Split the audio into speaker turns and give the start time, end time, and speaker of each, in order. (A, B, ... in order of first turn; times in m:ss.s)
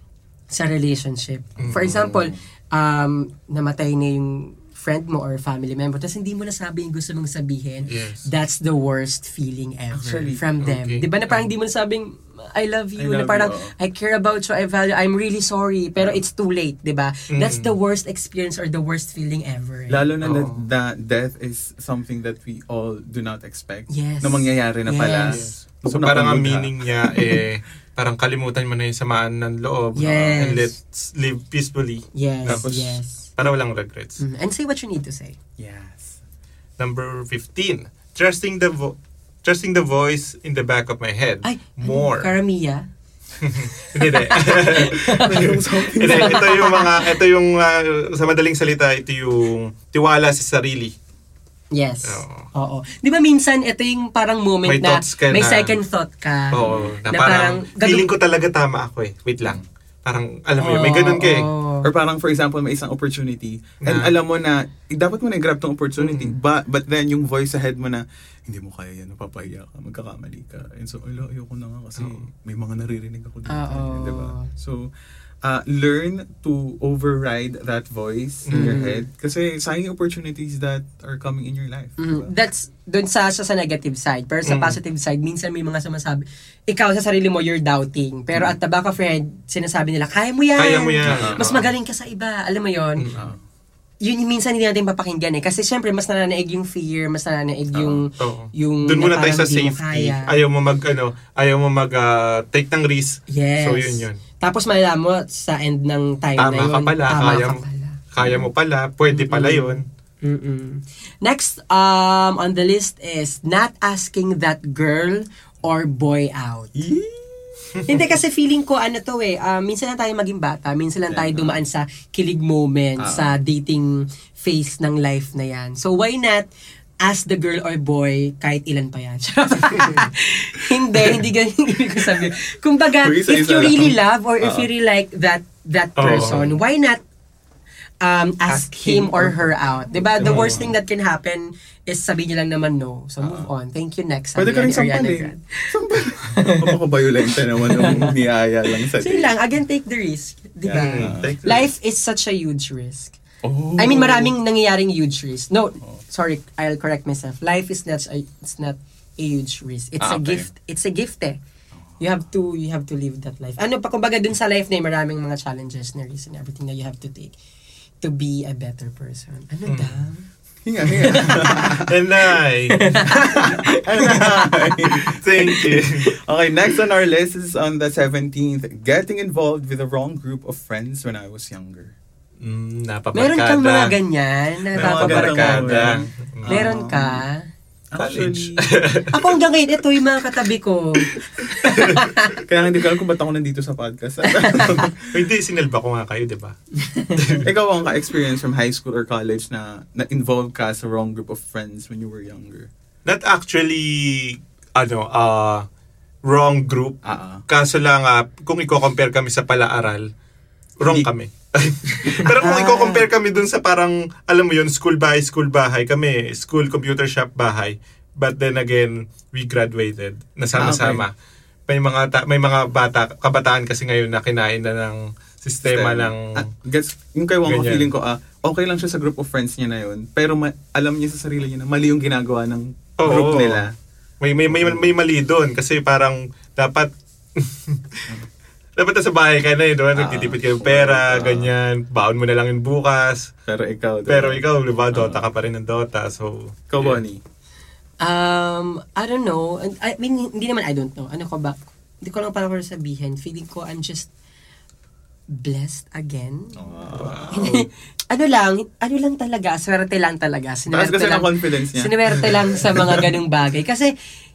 0:00.5-0:20.0 A
0:01.6-0:02.2 B
0:01.6-0:02.4 C
0:07.9-0:08.3 B
0:09.9-0:10.4 C
0:10.6-0:11.5 B
0:13.0-0:13.7 C
0:17.3-0:17.7 B
0:19.9-0:27.4 C
0:20.2-0:20.6 B
0:23.9-0:25.4 A
0:25.3-0:32.7 B
0:29.9-0:30.7 A
0:32.1-0:33.3 A
0:32.4-0:33.0 C
0:33.4-0:34.2 B
0:34.2-0:35.4 A
0:35.6-0:36.2 C
0:36.8-0:42.3 B
0:41.4-0:42.8 A
0:43.4-0:50.9 B
0:43.5-0:47.1 A
0:44.8-0:46.6 C
0:51.7-0:58.1 A
0:52.0-0:52.5 B
0:54.7-0:55.8 B
0:56.5-1:01.5 B
0:56.6-0:57.0 C
1:00.6-1:01.9 A
1:01.8-1:14.9 C
1:03.8-1:04.1 B
1:06.0-1:06.3 B
1:12.0-1:12.2 B
1:13.5-1:14.5 A
1:15.4-1:22.3 C
1:18.5-1:18.8 B
1:18.5-1:19.0 A
1:22.0-1:33.1 A
1:24.4-1:24.8 B
1:30.6-1:31.7 B
1:31.0-1:31.5 C
1:33.0-1:33.2 B
1:34.0-1:40.3 A
1:37.7-1:38.0 C
1:38.2-1:44.2 B
1:43.3-1:48.0 A
1:46.4-1:49.8 B
1:48.2-1:48.5 C
1:49.1-1:56.8 A
1:56.7-1:58.1 C
1:57.8-2:06.5 A
2:01.1-2:01.6 C
2:03.0-2:03.4 C
2:07.0-2:17.0 A
2:13.0-2:14.7 C
2:16.0-2:16.4 B
2:16.1-2:16.5 C
2:18.0-2:33.2 A
2:18.5-2:20.7 C
2:20.2-2:20.6 B
2:23.2-2:23.5 C
2:24.4-2:29.3 C
2:30.6-2:31.5 C
2:30.7-2:31.7 B
2:33.4-2:34.3 C
2:33.8-2:41.4 A
2:40.0-2:40.5 C
2:42.0-2:47.3 A
2:48.0-2:50.3 A
2:49.7-2:50.0 B
2:50.6-2:52.0 C
2:50.8-2:51.8 A
2:51.3-2:53.1 B
2:52.7-2:55.8 A
2:53.0-3:01.9 C
2:54.9-2:56.1 B
3:02.4-3:04.0 B
3:03.1-3:05.9 A
3:04.7-3:06.7 B
3:04.7-3:07.2 C
3:06.4-3:07.5 A
3:07.9-3:08.7 C
3:08.0-3:09.3 B
3:09.1-3:12.4 A
3:11.1-3:12.0 B
3:12.4-3:15.1 C
3:14.3-3:14.9 A
3:15.0-3:17.5 B
3:16.8-3:17.2 A
3:17.3-3:22.7 C
3:23.0-3:25.6 B
3:26.3-3:30.0 B
3:27.0-3:27.4 C
3:30.8-3:41.1 B
3:31.9-3:33.0 A
3:40.5-3:41.0 C
3:41.7-3:46.3 B
3:45.6-3:53.7 C
3:47.4-3:47.9 B
3:53.0-3:53.7 B
3:54.2-3:58.2 B
3:54.5-3:54.9 C
3:58.8-4:03.3 B
3:59.9-4:01.5 C
4:03.4-4:05.3 C
4:04.1-4:07.0 B
4:06.7-4:07.2 C
4:08.0-4:14.1 A
4:15.3-4:16.6 A
4:16.6-4:17.5 C
4:16.9-4:17.6 B
4:17.3-4:23.9 A
4:20.7-4:23.1 C